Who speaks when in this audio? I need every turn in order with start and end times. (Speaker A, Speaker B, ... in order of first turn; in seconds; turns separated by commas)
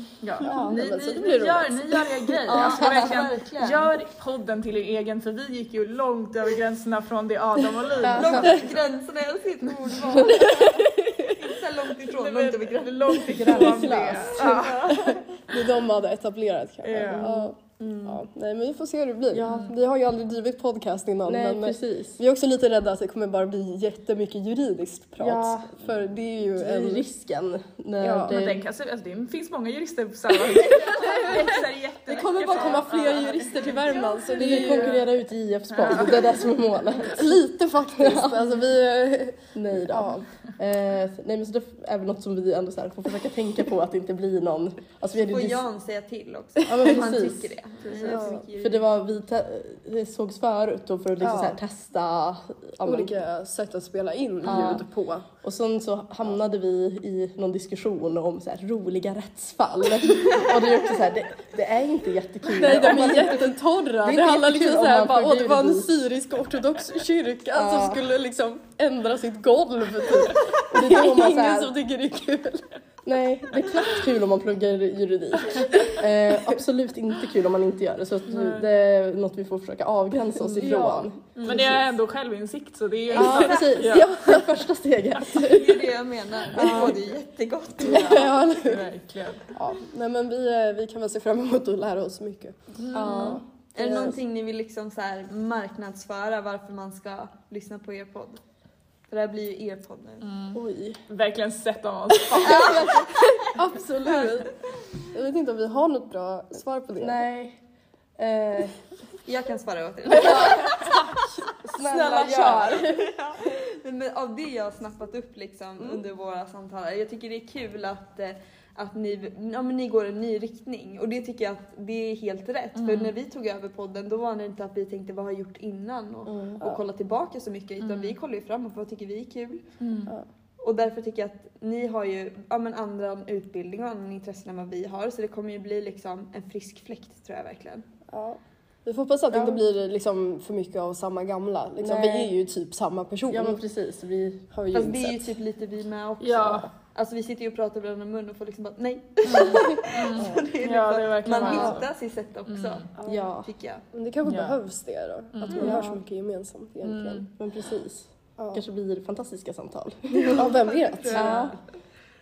Speaker A: 0.2-8.7, Speaker B: 0.4-2.3, Speaker C: 0.4-0.8, Speaker D: 0.5-0.8, Speaker D: 2.5-3.9, Speaker C: 8.0-8.6, Speaker D: 8.1-13.8, Speaker C: 10.3-10.7, Speaker A: 12.1-15.2, Speaker C: 13.3-14.7, Speaker B: 13.5-27.1, Speaker A: 16.8-17.3, Speaker C: 17.0-17.5, Speaker D: 17.8-18.2, Speaker C: 19.3-19.7, Speaker C: 21.2-22.2, Speaker C: 25.2-25.9, Speaker C: 26.6-28.6, Speaker B: 28.0-28.4, Speaker A: 28.3-35.0, Speaker D: 30.8-31.6, Speaker D: 32.1-33.6, Speaker B: 32.1-35.1, Speaker C: 34.3-37.4, Speaker A: 35.7-36.4, Speaker B: 37.0-40.2, Speaker C: 38.0-38.5, Speaker C: 39.5-45.6, Speaker D: 45.3-48.9, Speaker C: 46.6-47.5, Speaker B: 47.9-48.5, Speaker C: 48.0-53.1, Speaker B: 51.2-51.6, Speaker B: 52.8-55.3, Speaker C: 54.4-54.9, Speaker C: 55.4-66.0, Speaker B: 62.5-72.7, Speaker C: 67.5-68.0, Speaker C: 70.7-71.7, Speaker C: 73.0-81.8, Speaker B: 75.7-76.0, Speaker A: 78.3-78.7, Speaker B: 80.4-81.1, Speaker A: 81.4-84.1, Speaker C: 83.1-85.9, Speaker D: 85.3-88.2, Speaker C: 86.5-86.9, Speaker A: 86.6-86.9, Speaker B: 86.6-86.9, Speaker A: 87.8-89.5, Speaker B: 87.9-88.9, Speaker B: 89.5-94.1, Speaker A: 92.8-93.3, Speaker C: 92.9-94.0, Speaker D: 93.0-98.4, Speaker D: 99.1-100.3, Speaker A: 100.2-103.1, Speaker C: 100.5-101.0, Speaker D: 102.4-103.5, Speaker B: 103.5-107.2, Speaker C: 107.0-107.6, Speaker C: 108.2-108.8, Speaker D: 109.2-111.0, Speaker C: 110.1-111.0, Speaker B: 110.2-111.0, Speaker B: 111.6-113.0, Speaker C: 111.6-113.0, Speaker D: 112.2-129.6, Speaker A: 122.8-123.1, Speaker C: 126.3-126.8, Speaker A: 127.8-128.2, Speaker A: 129.8-130.1, Speaker D: 130.6-137.8, Speaker B: 138.1-143.6, Speaker C: 139.3-139.6, Speaker C: 141.8-142.3, Speaker C: 143.3-144.5, Speaker B: 144.5-145.3, Speaker D: 144.7-153.8, Speaker A: 146.2-146.7, Speaker A: 149.2-151.9, Speaker B: 151.4-151.8, Speaker A: 152.5-152.9, Speaker C: 153.0-153.5, Speaker B: 153.9-157.3, Speaker A: 154.2-154.6, Speaker A: 155.3-155.8, Speaker C: 155.5-156.0, Speaker A: 156.8-157.3, Speaker C: 157.4-160.5, Speaker B: 158.4-158.6, Speaker D: 160.2-161.6, Speaker B: 160.3-161.5, Speaker C: 161.1-161.6